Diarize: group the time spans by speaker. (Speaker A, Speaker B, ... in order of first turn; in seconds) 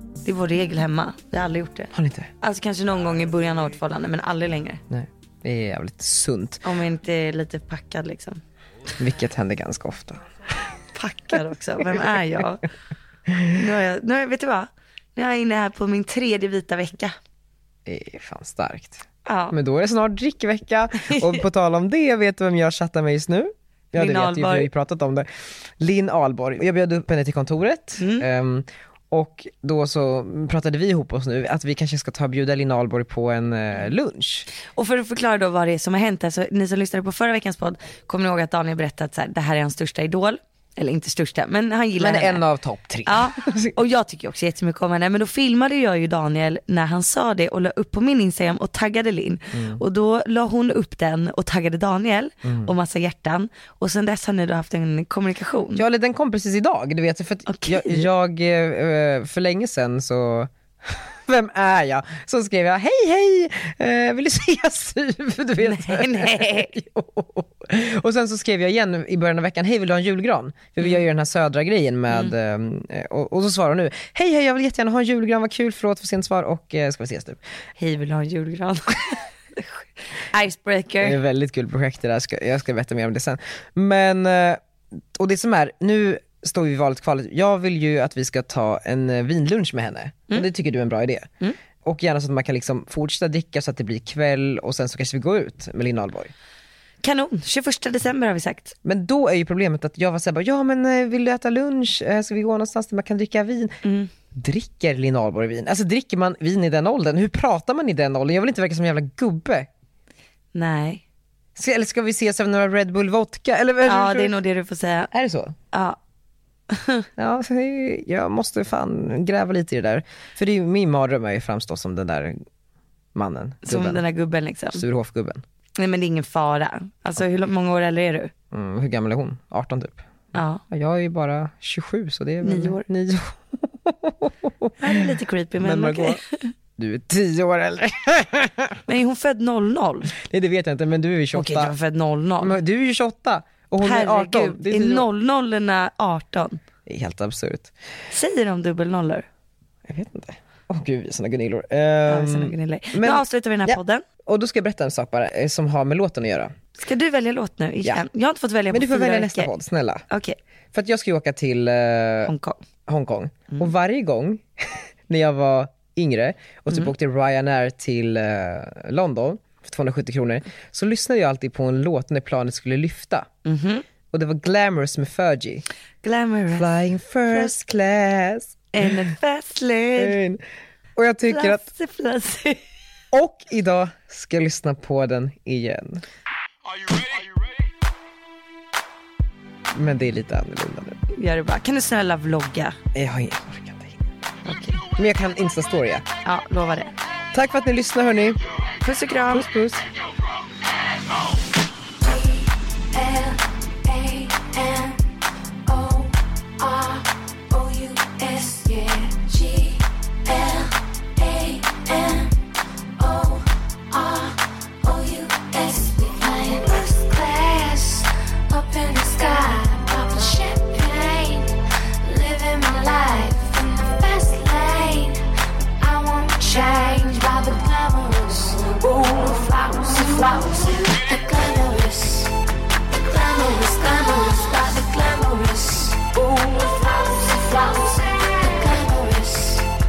Speaker A: 0.2-4.8, 6.6-8.4, 10.9-12.6, 13.5-17.1, 19.3-19.6, 21.1-21.4, 24.0-24.7, 28.0-28.3, 34.7-42.4, 43.1-55.8, 57.5-58.1, 65.6-66.7, 77.8-81.2, 97.0-98.8, 103.8-104.1, 110.5-111.0, 113.8-115.1, 115.7-116.0, 116.7-117.1, 123.6-124.8, 125.8-128.3, 130.3-130.6, 132.4-132.8, 134.8-136.5, 138.9-140.2, 141.3-142.6, 143.8-146.6, 148.1-149.3, 152.1-154.0, 156.8-159.5, 160.1-160.4, 162.2-162.7, 173.4-173.8, 176.0-176.7, 178.7-180.2, 181.3-182.6, 191.1-192.8, 194.4-194.9, 196.2-196.9, 198.8-199.5
Speaker B: 1.9-2.3, 4.9-6.7, 9.0-10.2, 13.3-13.6, 17.9-25.3, 25.8-34.5, 42.0-43.8, 49.5-49.8, 52.4-52.7, 55.8-77.4, 81.0-84.6, 85.1-91.3, 91.8-96.3, 98.8-109.7, 111.6-114.4, 115.1-115.6, 117.2-122.5, 123.1-124.0, 124.7-125.4, 128.5-130.1, 130.7-135.1, 135.6-136.2, 136.8-138.8, 140.2-141.7, 142.4-145.1, 146.9-147.7, 149.9-156.5, 158.7-160.0, 160.7-162.3, 162.9-173.3, 174.1-175.7, 176.5-179.1, 180.0-180.4, 181.0-181.7, 183.1-186.0, 189.7-191.0, 192.9-194.1, 194.9-196.1, 197.3-198.4, 199.3-199.8
Speaker C: 202.0-205.1, 205.7-212.4, 213.0-225.2, 225.8-232.3, 233.0-239.7